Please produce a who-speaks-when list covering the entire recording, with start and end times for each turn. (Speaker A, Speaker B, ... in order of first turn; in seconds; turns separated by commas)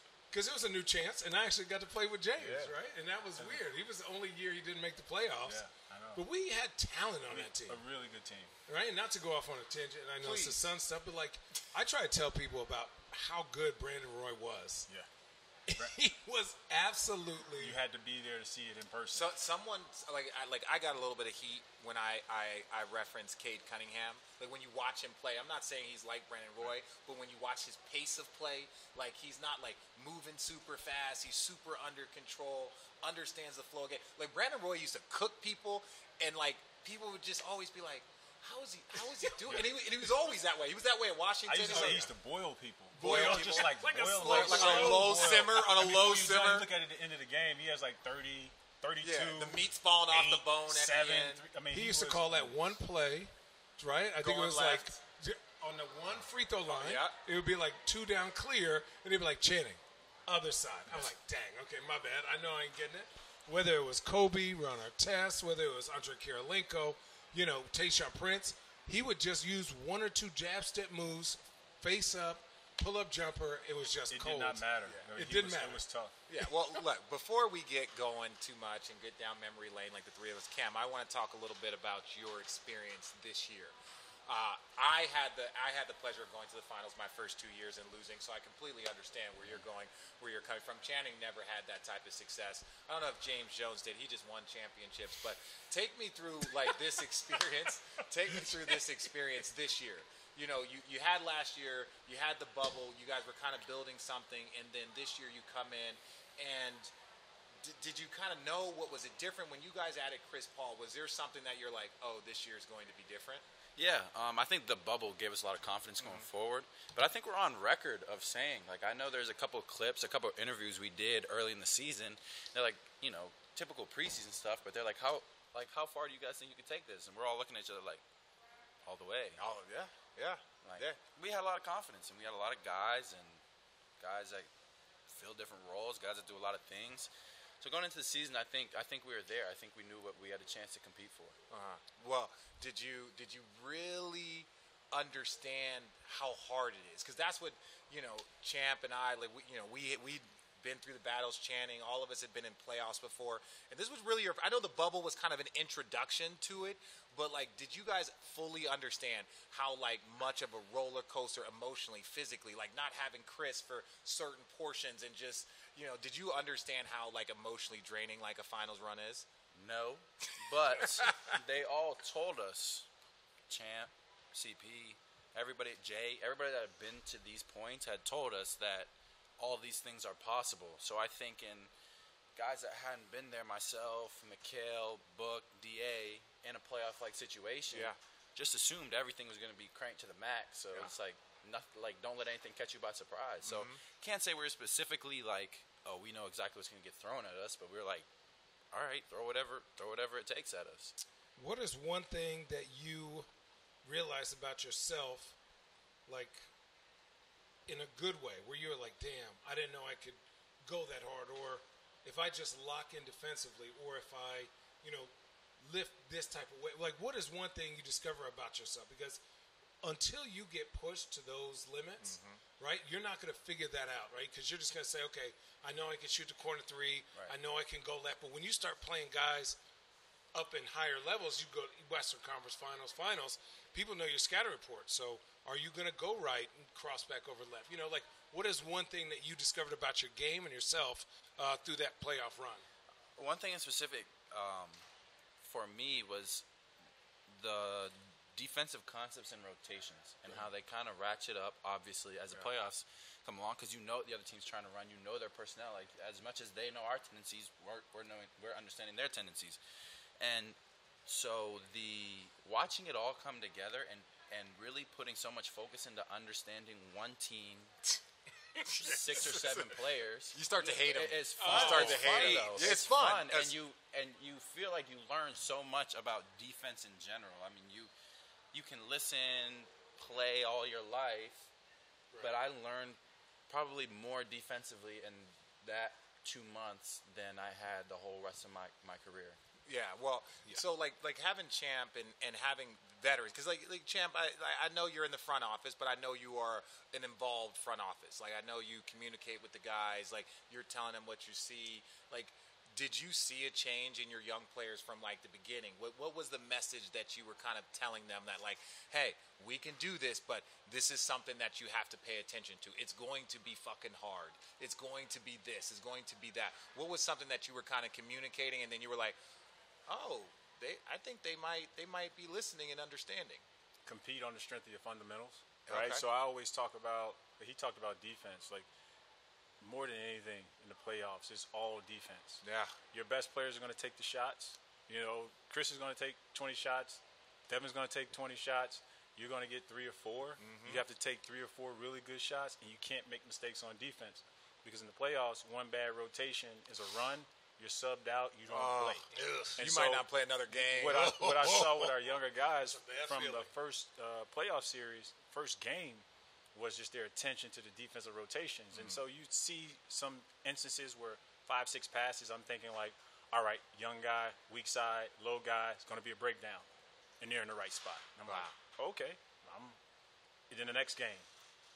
Speaker A: 0.3-5.6, Speaker B: 2.4-2.8, Speaker B: 5.4-6.2, Speaker A: 6.2-7.8, Speaker B: 7.3-8.5, Speaker A: 8.7-14.9, Speaker C: 10.2-10.7, Speaker A: 15.7-17.8, Speaker B: 17.6-19.3, Speaker C: 19.1-42.1, Speaker B: 41.5-52.6, Speaker A: 41.7-42.0, Speaker C: 43.0-46.7, Speaker A: 43.0-45.5, Speaker C: 49.0-51.4, Speaker A: 51.7-75.8, Speaker C: 54.2-55.0, Speaker C: 56.7-57.1, Speaker B: 74.1-76.2, Speaker C: 76.3-83.7, Speaker C: 84.3-106.9, Speaker C: 107.6-113.4, Speaker D: 113.8-128.0, Speaker C: 116.0-116.3, Speaker D: 128.8-129.4, Speaker C: 129.4-131.0, Speaker D: 130.6-133.4, Speaker D: 134.0-134.5, Speaker D: 135.1-141.4, Speaker C: 141.5-169.3, Speaker D: 169.5-172.9, Speaker C: 170.8-171.1, Speaker D: 173.5-181.7, Speaker D: 182.4-198.1, Speaker C: 187.7-188.0, Speaker C: 193.4-193.8, Speaker D: 198.7-200.9, Speaker A: 201.4-203.3, Speaker A: 203.8-205.4, Speaker A: 206.1-206.5, Speaker A: 207.7-215.1, Speaker A: 215.6-219.2, Speaker A: 219.8-229.6, Speaker C: 222.0-222.4, Speaker A: 230.3-242.7, Speaker D: 243.2-244.8, Speaker D: 245.4-246.5, Speaker D: 247.3-259.6, Speaker D: 260.2-267.8, Speaker C: 268.6-269.7, Speaker D: 268.8-277.9, Speaker C: 270.3-273.6, Speaker A: 271.4-272.8, Speaker D: 278.5-281.5, Speaker D: 282.2-289.4, Speaker C: 289.7-319.2, Speaker C: 319.9-323.4, Speaker B: 323.9-328.7, Speaker C: 325.7-326.0, Speaker B: 329.6-349.0, Speaker C: 332.4-332.7, Speaker C: 340.4-340.8, Speaker C: 348.5-349.0, Speaker A: 349.1-349.6, Speaker B: 349.6-366.6, Speaker C: 349.6-351.6, Speaker A: 351.2-351.9, Speaker A: 352.6-353.5, Speaker C: 358.7-359.0, Speaker B: 367.2-369.8, Speaker C: 368.3-368.5, Speaker B: 370.5-371.3